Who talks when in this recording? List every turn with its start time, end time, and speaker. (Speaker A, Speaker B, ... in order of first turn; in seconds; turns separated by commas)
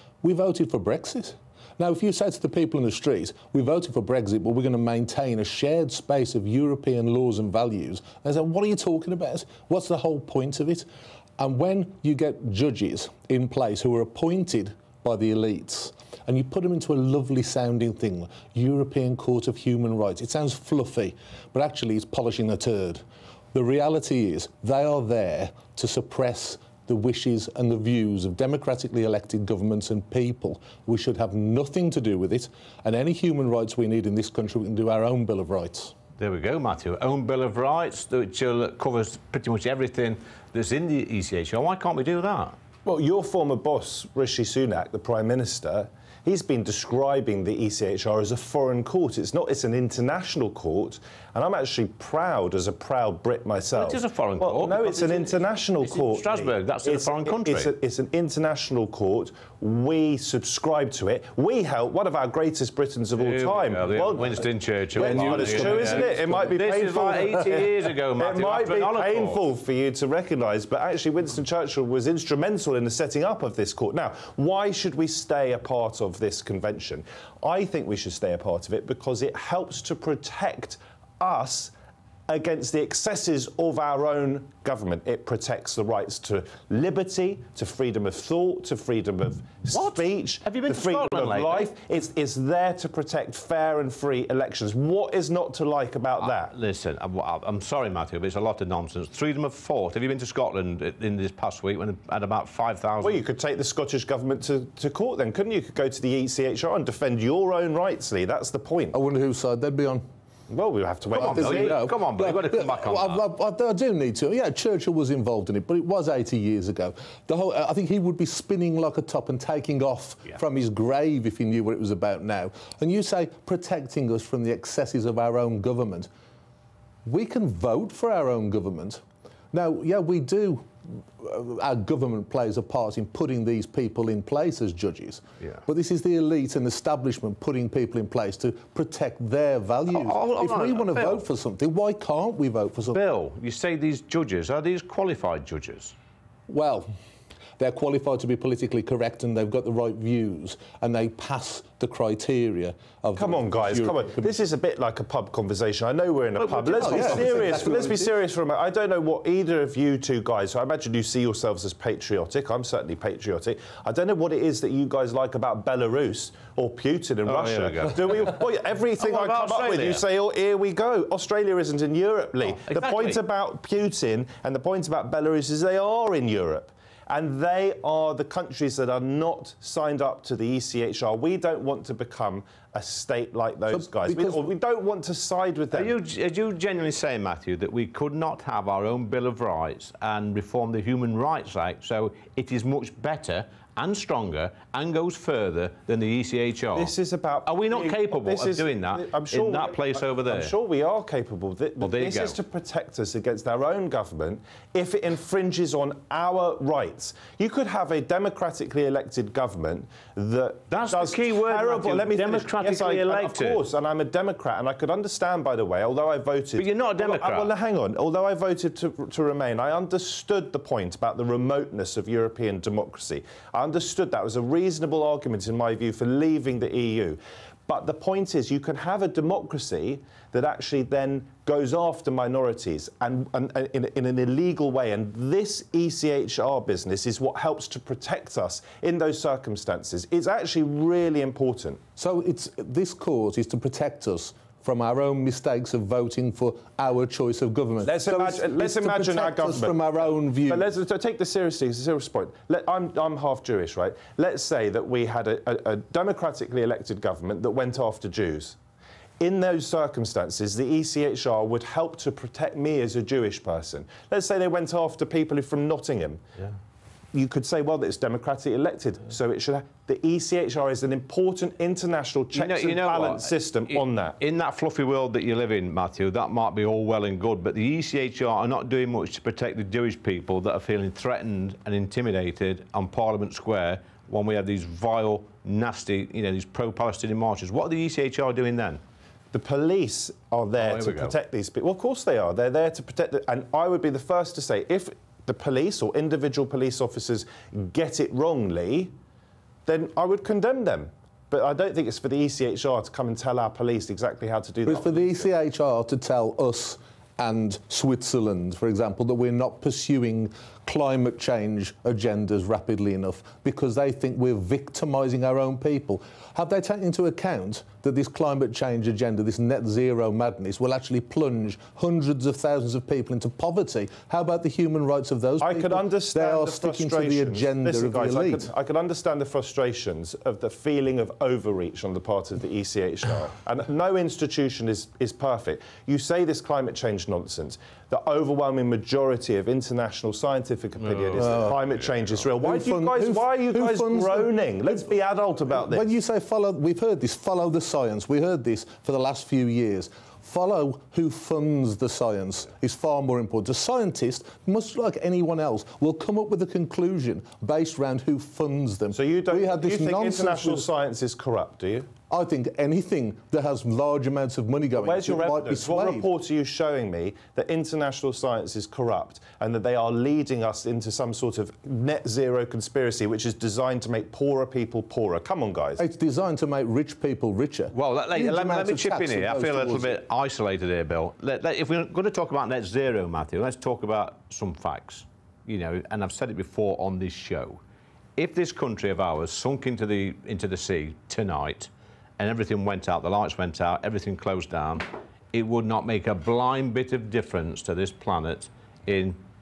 Speaker A: 0.2-10.8, Speaker A: 11.4-35.9, Speaker B: 36.2-42.6, Speaker C: 42.9-81.7, Speaker B: 53.7-57.7, Speaker B: 63.2-69.4, Speaker A: 65.0-67.5, Speaker C: 82.3-96.5, Speaker B: 89.7-91.7, Speaker B: 96.2-103.2, Speaker C: 103.0-109.0, Speaker A: 108.9-110.0, Speaker C: 110.5-112.0, Speaker A: 111.1-126.1, Speaker B: 111.2-113.2, Speaker A: 127.0-143.0, Speaker B: 139.9-141.2, Speaker B: 142.9-145.9, Speaker A: 146.5-146.9, Speaker A: 147.6-154.3, Speaker C: 153.2-185.9, Speaker B: 156.4-156.9, Speaker A: 156.6-158.1, Speaker B: 167.2-168.4, Speaker B: 169.0-170.0, Speaker B: 172.4-173.2, Speaker A: 183.7-184.5, Speaker B: 185.7-196.9, Speaker C: 196.7-241.8, Speaker B: 197.4-200.5, Speaker B: 201.8-202.3, Speaker B: 210.7-213.6, Speaker B: 216.6-217.5, Speaker A: 242.0-250.7, Speaker C: 247.8-258.6, Speaker C: 259.2-266.2, Speaker C: 267.1-274.1, Speaker B: 272.3-288.8, Speaker C: 289.3-298.9, Speaker B: 290.6-291.1, Speaker C: 299.6-305.3, Speaker A: 304.6-328.5, Speaker C: 325.4-345.9, Speaker A: 340.9-344.9, Speaker A: 345.5-360.7, Speaker C: 358.9-361.9, Speaker A: 362.1-366.1, Speaker C: 364.8-375.8, Speaker A: 375.8-380.0, Speaker B: 377.7-387.6, Speaker B: 388.2-399.2